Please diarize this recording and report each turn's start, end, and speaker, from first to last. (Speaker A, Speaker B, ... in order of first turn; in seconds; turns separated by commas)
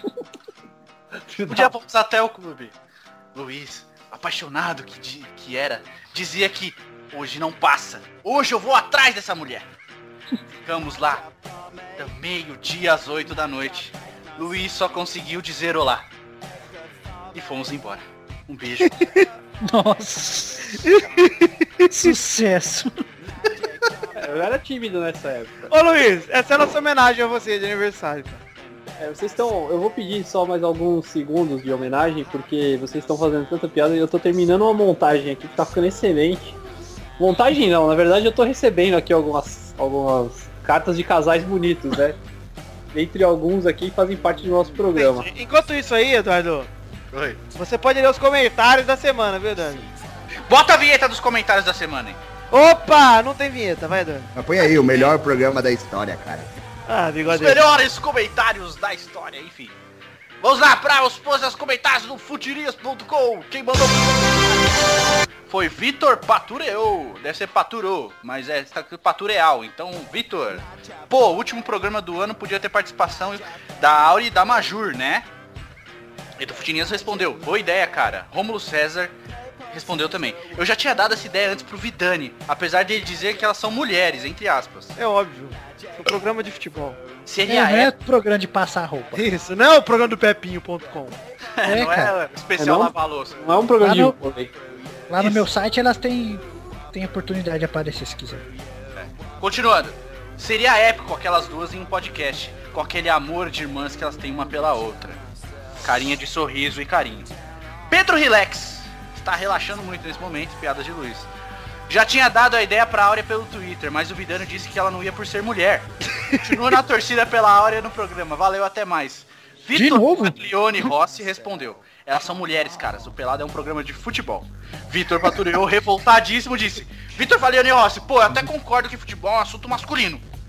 Speaker A: 1.4-1.7, Speaker B: 1.5-2.7, Speaker B: 3.3-9.7, Speaker B: 10.6-11.2, Speaker B: 12.0-16.1, Speaker B: 17.3-19.1, Speaker C: 19.6-20.8, Speaker D: 20.8-21.9, Speaker C: 21.9-22.9, Speaker A: 24.1-25.7, Speaker D: 25.7-28.4, Speaker A: 29.0-36.6, Speaker A: 37.2-42.2, Speaker A: 42.9-45.3, Speaker D: 44.9-46.7, Speaker B: 47.1-47.4, Speaker D: 47.5-49.9, Speaker B: 50.5-52.2, Speaker D: 52.5-54.3, Speaker E: 54.3-56.5, Speaker D: 56.9-57.6, Speaker B: 57.3-59.7, Speaker B: 60.4-64.8, Speaker B: 65.5-75.2, Speaker B: 76.4-79.2, Speaker B: 79.7-84.9, Speaker D: 85.0-87.0, Speaker B: 87.2-87.9, Speaker C: 87.5-89.2, Speaker D: 89.1-91.2, Speaker B: 91.6-93.4, Speaker C: 91.6-92.1, Speaker A: 92.6-94.5, Speaker C: 93.8-94.2, Speaker C: 95.1-98.5, Speaker B: 95.2-95.4, Speaker B: 99.0-105.2, Speaker B: 105.8-107.3, Speaker B: 107.9-111.3, Speaker B: 111.9-130.2, Speaker C: 119.7-120.3